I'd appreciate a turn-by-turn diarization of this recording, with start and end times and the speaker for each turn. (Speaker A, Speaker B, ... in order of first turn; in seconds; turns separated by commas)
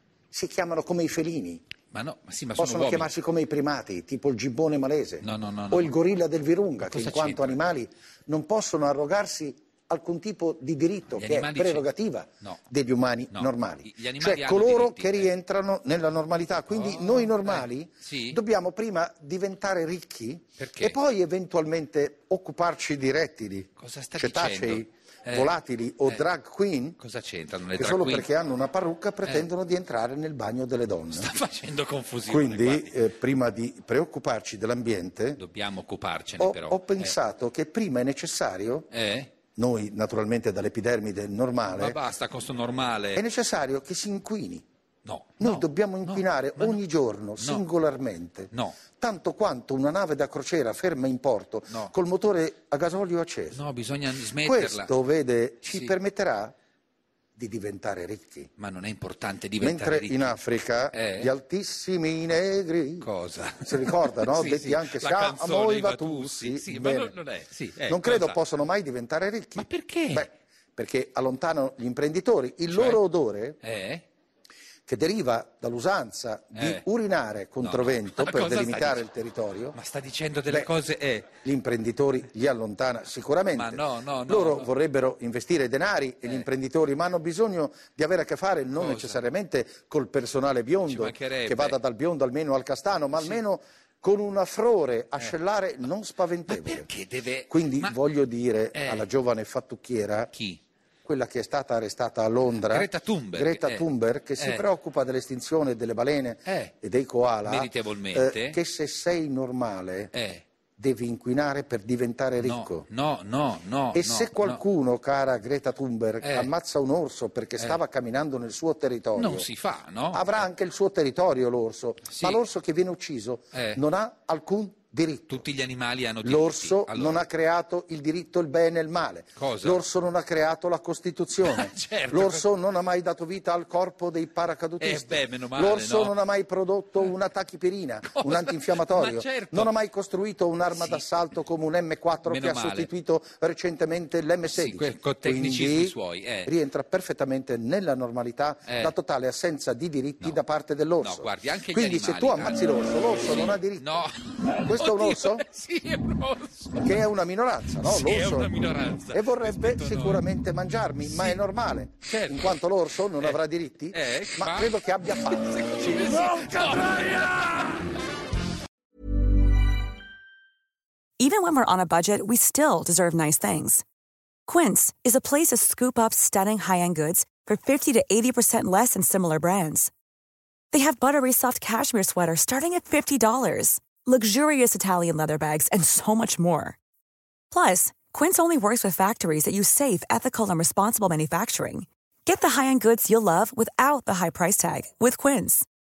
Speaker A: 0.3-1.6, Speaker B: 1.9-3.1, Speaker A: 2.6-27.0, Speaker B: 5.2-5.9, Speaker B: 6.8-7.7, Speaker B: 11.1-12.6, Speaker B: 13.3-15.3, Speaker B: 16.7-18.4, Speaker B: 20.6-21.0, Speaker B: 23.8-26.2, Speaker B: 27.0-28.3, Speaker A: 27.7-31.4, Speaker B: 31.1-33.0, Speaker A: 32.3-35.4, Speaker B: 35.4-37.2, Speaker A: 36.4-38.9, Speaker B: 38.9-39.3, Speaker A: 39.5-42.0, Speaker B: 41.8-43.2, Speaker A: 43.1-44.6, Speaker B: 45.0-46.8, Speaker A: 45.4-53.6, Speaker B: 47.4-47.6, Speaker B: 48.5-48.8, Speaker B: 51.7-51.9, Speaker B: 53.5-54.9, Speaker A: 54.4-56.5, Speaker B: 55.6-55.9, Speaker A: 57.4-58.5, Speaker B: 58.6-60.4, Speaker A: 59.6-63.1, Speaker B: 60.9-61.3, Speaker B: 63.0-68.4, Speaker A: 63.6-67.1, Speaker A: 67.9-73.6, Speaker B: 69.5-70.3, Speaker B: 72.7-73.0, Speaker B: 73.6-74.0, Speaker A: 74.9-79.8, Speaker B: 76.5-76.8, Speaker B: 77.6-79.1, Speaker B: 79.7-81.4, Speaker A: 81.4-96.9, Speaker B: 83.5-84.7, Speaker B: 88.7-89.2, Speaker B: 90.8-91.8, Speaker B: 93.2-93.4, Speaker B: 95.2-95.9, Speaker B: 96.5-98.0, Speaker A: 97.5-100.3, Speaker B: 98.7-99.1, Speaker B: 100.3-100.6, Speaker A: 101.0-110.1, Speaker B: 102.5-104.7, Speaker B: 106.5-106.7, Speaker B: 107.4-108.6, Speaker B: 110.1-110.4, Speaker A: 110.8-112.8, Speaker B: 112.4-114.6, Speaker A: 113.9-119.5, Speaker B: 116.2-116.5, Speaker B: 119.2-120.5, Speaker A: 120.1-125.5, Speaker B: 122.1-122.4, Speaker B: 123.5-123.8, Speaker B: 125.3-127.2, Speaker A: 126.2-153.8, Speaker B: 129.3-129.8, Speaker B: 131.4-132.4, Speaker B: 134.8-136.2, Speaker B: 138.1-139.7, Speaker B: 140.7-141.1, Speaker B: 142.2-142.9, Speaker B: 144.5-146.5, Speaker B: 148.6-148.9, Speaker B: 151.0-157.0, Speaker A: 154.6-155.4, Speaker A: 156.7-158.5, Speaker B: 157.8-160.2, Speaker A: 159.1-167.2, Speaker B: 161.0-161.4, Speaker B: 162.0-162.6, Speaker B: 163.9-167.8, Speaker C: 171.2-173.8, Speaker C: 174.4-179.9, Speaker C: 180.7-186.8, Speaker C: 187.5-195.7